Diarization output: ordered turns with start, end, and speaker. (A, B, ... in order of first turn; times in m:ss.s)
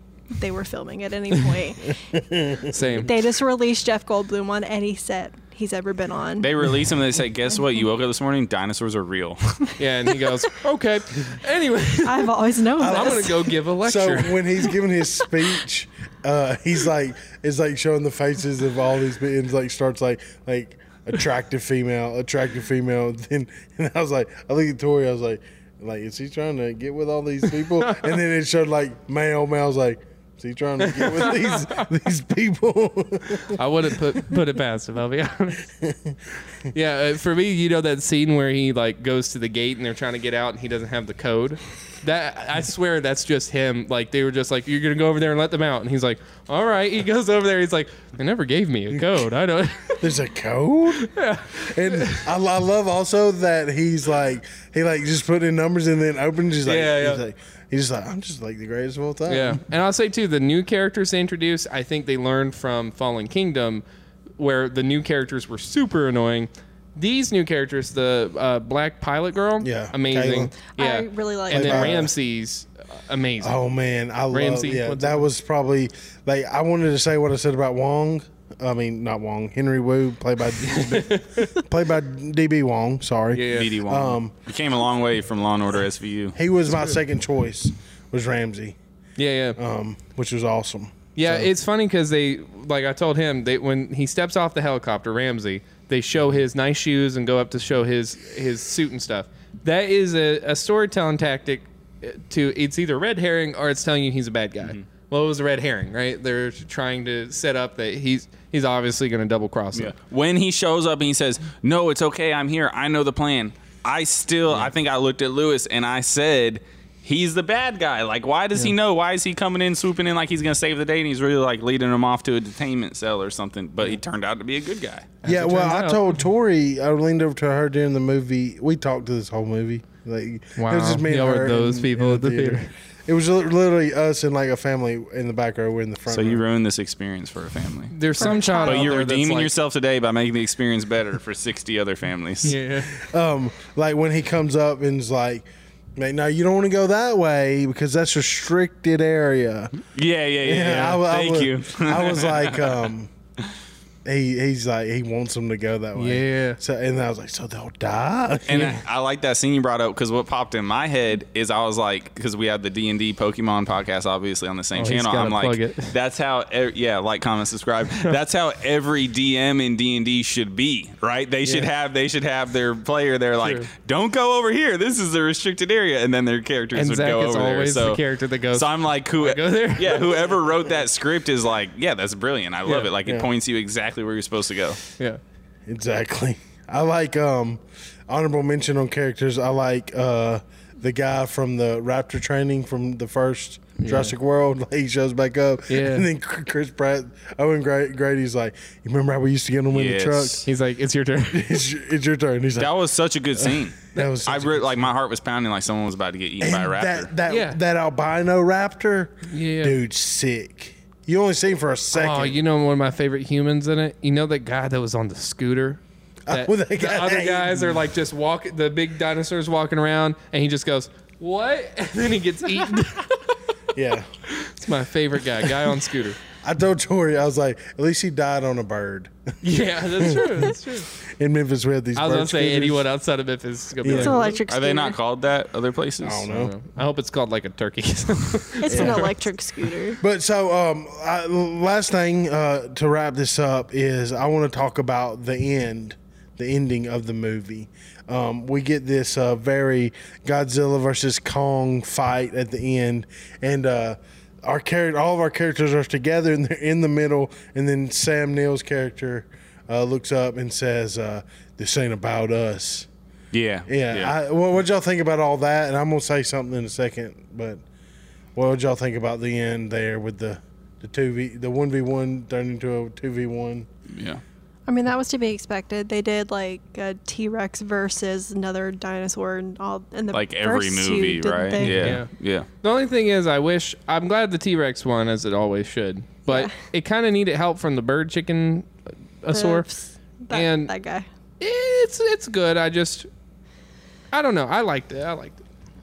0:00.3-0:02.0 A
0:02.0-0:03.0 B
0:02.7-0:03.1 C
0:03.0-0:06.5 A
0:06.4-0:09.8 D
0:09.8-0:12.3 C
0:12.0-0:13.5 A
0:12.8-0:33.6 B
0:12.9-0:14.4 C
0:27.8-0:28.1 C
0:30.8-0:31.8 C
0:33.4-0:35.6 C
0:35.8-0:36.2 B
0:36.7-0:50.1 C
0:48.9-0:49.2 B
0:50.0-0:59.6 B
0:51.0-0:52.3 C
0:56.6-0:57.2 C
0:59.3-1:03.8 C
1:04.4-1:13.6 C
1:09.6-1:10.5 B
1:10.7-1:12.1 A
1:11.5-1:12.1 B
1:13.4-1:24.3 B
1:14.3-1:15.3 C
1:20.6-1:21.6 C
1:23.3-1:23.7 C
1:23.5-1:26.4 D
1:26.3-1:28.8 B
1:26.7-1:27.0 C
1:29.2-1:29.6 C
1:29.6-1:31.5 B
1:31.2-1:49.9 C
1:49.7-2:05.1 D
2:05.2-2:06.2 C
2:05.2-2:16.4 B
2:10.6-2:12.7 C
2:16.1-2:22.6 D
2:17.9-2:19.5 C
2:18.2-2:18.9 A
2:22.4-2:22.9 C
2:22.9-2:29.7 B
2:29.9-2:32.8 D
2:30.4-2:33.1 B
2:34.0-2:38.7 B
2:36.0-2:36.6 C
2:38.5-3:04.8 D
2:44.7-2:45.9 C
2:51.4-2:51.7 B
2:53.4-2:53.7 C
2:56.7-3:00.3 C
3:02.6-3:02.9 C
3:05.7-3:20.4 B
3:13.8-3:14.1 C
3:15.7-3:16.1 C
3:19.7-3:20.4 D
3:20.4-3:21.6 C
3:21.3-3:22.7 B
3:22.6-3:27.1 D
3:23.4-3:24.9 B
3:26.4-3:32.4 B
3:27.3-3:27.6 C
3:29.3-3:29.8 C
3:31.9-3:43.3 C
3:36.2-3:37.8 B
3:43.7-3:44.1 B
3:44.4-3:46.2 C
3:46.4-3:52.8 B
3:49.4-3:50.9 C
3:52.0-3:54.4 C
3:53.8-3:54.4 B
3:53.9-3:55.0 A
3:54.5-3:56.3 D
3:56.0-3:56.5 B
3:56.3-3:59.2 C
3:58.6-4:00.0 A
3:58.7-3:59.1 B
4:00.0-4:22.9 B
4:23.3-4:24.1 D
4:23.7-4:27.6 B
4:28.3-4:33.7 B
4:33.9-4:34.2 D
4:34.7-4:42.0 A
4:40.1-4:42.5 D
4:41.6-4:42.1 C
4:42.6-4:48.7 C
4:46.3-4:46.5 A
4:49.2-4:49.6 C
4:49.3-4:51.0 A
4:50.3-4:50.7 C
4:51.4-4:53.1 C
4:54.1-4:55.4 C